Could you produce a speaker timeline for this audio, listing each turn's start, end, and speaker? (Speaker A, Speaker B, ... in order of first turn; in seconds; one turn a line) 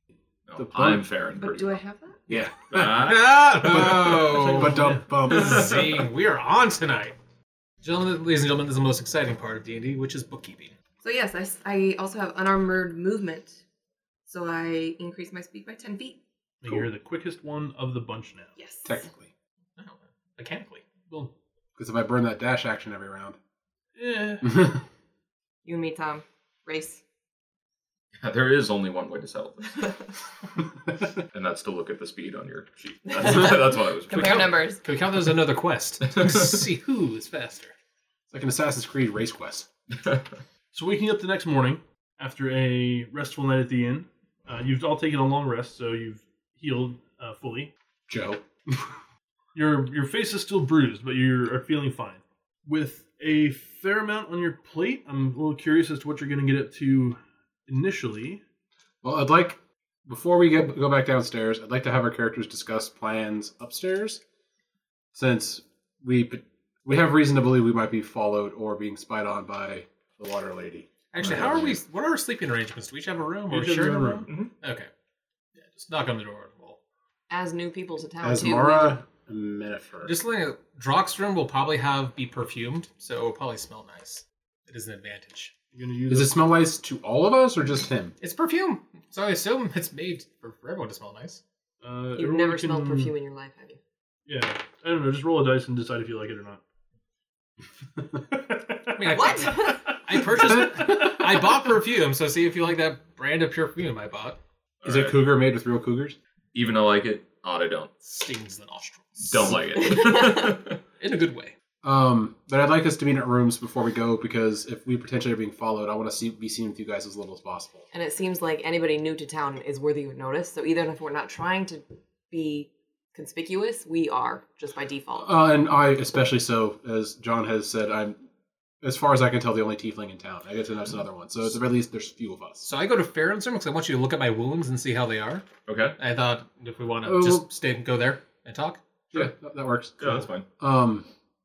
Speaker A: 0.5-1.8
Speaker B: 0.6-1.1
Speaker C: 1.4-2.2
Speaker A: 2.3-3.4
Speaker D: 2.7-7.2
Speaker B: 3.6-5.7
Speaker E: 4.3-5.0
Speaker A: 5.3-6.0
Speaker D: 7.8-10.7
Speaker C: 11.0-13.6
Speaker C: 14.3-16.2
Speaker E: 16.6-18.5
Speaker C: 18.6-19.1
Speaker B: 18.9-19.3
Speaker D: 19.8-20.9
Speaker B: 21.8-23.4
Speaker E: 24.0-24.7
Speaker B: 24.4-24.8
Speaker C: 25.6-27.0
Speaker A: 28.2-30.0
Speaker A: 31.3-34.5
Speaker C: 33.1-34.8
Speaker D: 34.1-37.7
Speaker B: 38.3-39.7
Speaker E: 40.7-47.7
Speaker B: 48.1-48.9
Speaker E: 49.5-58.4
Speaker B: 59.0-64.2
Speaker B: 65.1-71.8
Speaker D: 71.1-74.9
Speaker E: 73.5-74.3
Speaker D: 75.6-76.8
Speaker C: 77.3-79.0
Speaker B: 78.2-80.1
Speaker D: 80.0-85.5
Speaker E: 85.7-86.3
Speaker B: 86.1-88.1
Speaker D: 88.2-91.4
Speaker E: 91.8-93.1
Speaker C: 92.2-93.8
Speaker E: 94.2-96.6
Speaker E: 98.5-99.2
Speaker D: 99.0-104.4
Speaker C: 99.1-99.8
Speaker B: 100.5-101.2
Speaker A: 104.8-105.2
Speaker B: 104.8-106.2
Speaker A: 106.5-107.9
Speaker D: 108.0-109.6
Speaker A: 109.2-110.8
Speaker C: 109.8-110.6
Speaker D: 111.0-111.5
Speaker B: 111.8-117.9
Speaker C: 117.9-125.3
Speaker B: 125.2-128.2
Speaker B: 128.8-132.7
Speaker D: 132.6-135.4
Speaker A: 135.7-136.0
Speaker D: 136.0-138.8
Speaker B: 137.1-137.4
Speaker B: 139.1-141.1
Speaker A: 140.0-140.5